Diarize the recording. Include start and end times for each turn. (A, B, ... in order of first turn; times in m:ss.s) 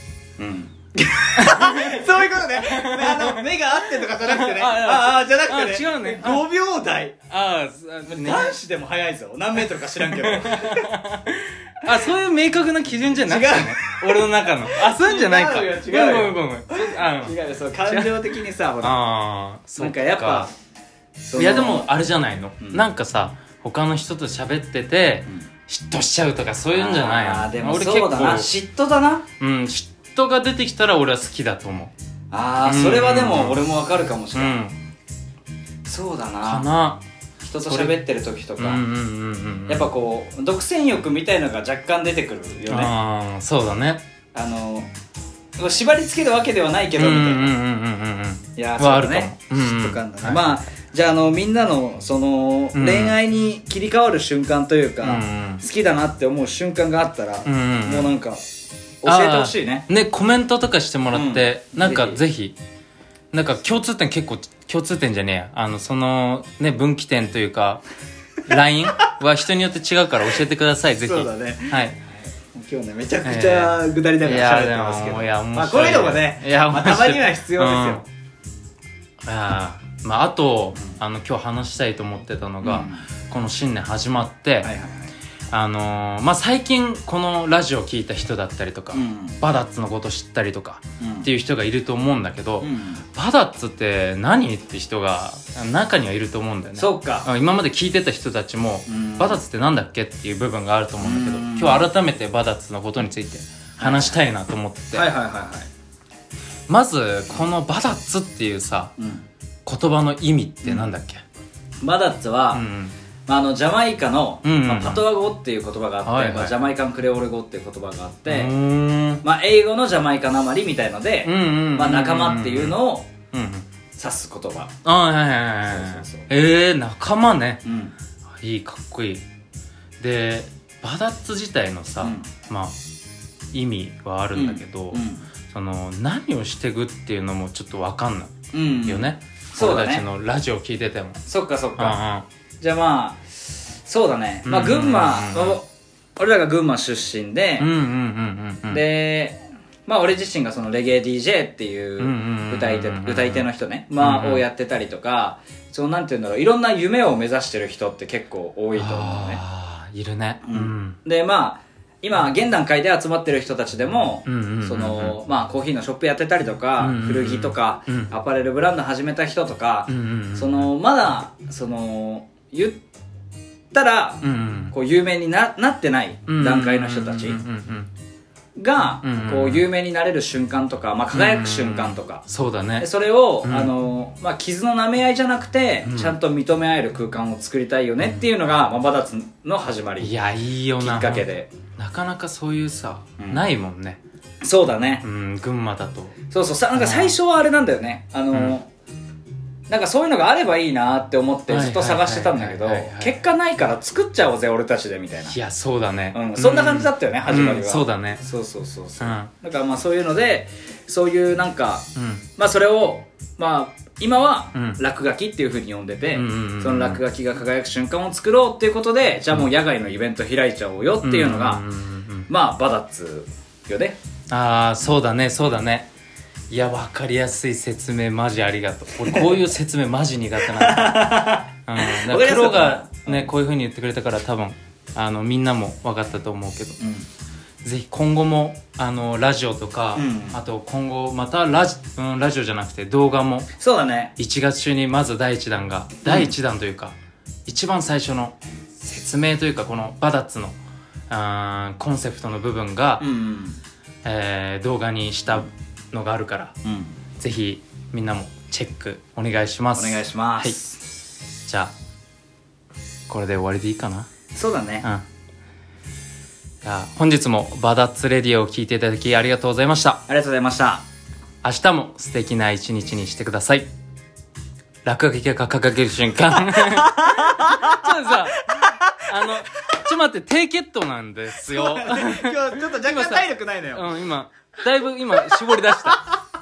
0:00.4-0:07.2 A
0:01.4-0:03.4 B
0:04.0-0:06.4 B
0:07.3-0:08.6 B
0:08.0-0:11.6 A
0:09.8-0:17.3 B
0:13.2-0:19.0 A
0:17.8-0:20.5 B
0:19.8-0:20.5 A
0:21.2-0:21.9 A
0:21.4-0:28.5 B
0:22.6-0:22.8 A
0:26.7-0:29.2 A
0:29.4-0:31.9 B
0:32.3-0:34.6 A
0:32.6-0:33.6 B
0:34.3-0:34.7 B
0:35.8-0:36.6 A
0:36.4-0:37.0 B
0:37.4-0:38.8 A
0:37.6-0:38.0 B
0:38.6-0:39.9 B
0:39.7-0:42.9 A
0:42.7-0:44.0 B
0:44.3-0:44.9 A
0:45.6-0:47.6 A
0:47.0-0:50.5 B
0:48.6-0:58.4 A
0:52.7-0:53.2 B
0:55.0-0:55.6 B
0:57.4-0:58.1 B
0:59.0-0:59.9 A
0:59.0-1:02.6 B
1:01.1-1:02.2 A
1:03.3-1:07.8 B
1:08.4-1:12.0 B
1:11.0-1:18.0 A
1:13.2-1:18.0 B
1:19.2-1:24.7 B
1:22.6-1:23.1 A
1:24.6-1:25.1 A
1:25.5-1:45.1 B
1:28.9-1:29.4 A
1:31.0-1:31.3 A
1:32.6-1:33.0 A
1:36.8-1:37.3 A
1:38.9-1:39.4 A
1:41.0-1:41.9 A
1:43.8-1:44.2 A
1:44.9-1:45.7 A
1:46.7-1:48.9 B
1:49.0-1:49.2 A
1:49.6-1:51.2 B
1:50.6-1:50.9 A
1:51.8-1:52.6 A
1:52.5-1:52.9 B
1:53.3-1:58.5 A
1:54.4-1:55.0 B
1:56.0-1:56.6 B
1:58.3-1:59.2 B
1:59.2-2:03.1 A
2:01.2-2:02.8 B
2:03.3-2:03.7 B
2:04.0-2:04.7 A
2:04.8-2:07.6 B
2:05.6-2:06.3 A
2:07.6-2:07.9 A
2:08.4-2:09.2 B
2:10.0-2:12.8 B
2:12.0-2:12.3 A
2:13.5-2:21.2 B
2:14.3-2:15.2 A
2:18.5-2:20.0 A
2:21.2-2:22.0 A
2:21.8-2:22.2 B
2:22.6-2:25.6 A
2:24.4-2:25.6 B
2:26.2-2:27.7 A
2:27.6-2:28.8 B
2:28.7-2:39.4 A
2:32.0-2:33.5 B
2:34.0-2:34.4 B
2:38.7-2:41.0 B
2:40.4-2:52.8 A
2:44.2-2:45.2 B
2:46.8-2:48.1 B
2:49.9-2:50.7 B
2:53.7-2:57.4 A
2:54.2-2:54.7 B
2:56.3-2:57.9 B
2:58.6-3:02.2 A
2:59.0-2:59.6 B
3:01.1-3:02.9 B
3:02.8-3:10.1 A
3:03.4-3:03.7 B
3:05.8-3:06.2 B
3:10.0-3:14.0 B
3:10.8-3:11.5 A
3:13.2-3:13.5 A
3:14.4-3:15.0 A
3:15.0-3:16.2 B
3:16.3-3:18.7 A
3:16.7-3:17.2 B
3:19.7-3:25.4 A
3:21.5-3:23.2 B
3:25.3-3:28.2 B
3:26.1-3:41.6 A
3:29.0-3:29.3 B
3:32.0-3:32.2 B
3:34.5-3:34.8 B
3:36.1-3:37.0 B
3:41.0-3:42.3 B
3:42.3-3:44.0 A
3:44.3-3:45.9 B
3:46.5-3:56.8 B
3:49.0-3:49.4 A
3:50.5-3:53.3 A
3:56.8-3:57.1 A
3:57.6-4:03.5 B
4:00.0-4:00.4 A
4:03.6-4:04.1 A
4:04.2-4:06.9 B
4:06.0-4:06.3 A
4:07.4-4:10.6 B
4:11.1-4:13.0 B
4:13.0-4:13.6 A
4:14.0-4:16.5 B
4:16.6-4:17.0 A
4:17.2-4:20.6 B
4:19.8-4:20.8 A
4:21.4-4:21.7 B
4:23.1-4:24.1 B
4:24.3-4:24.8 A
4:26.6-4:30.0 B
4:30.1-4:30.8 A
4:31.4-4:33.7 B
4:34.8-4:46.0 B
4:36.5-4:39.1 A
4:41.4-4:43.9 A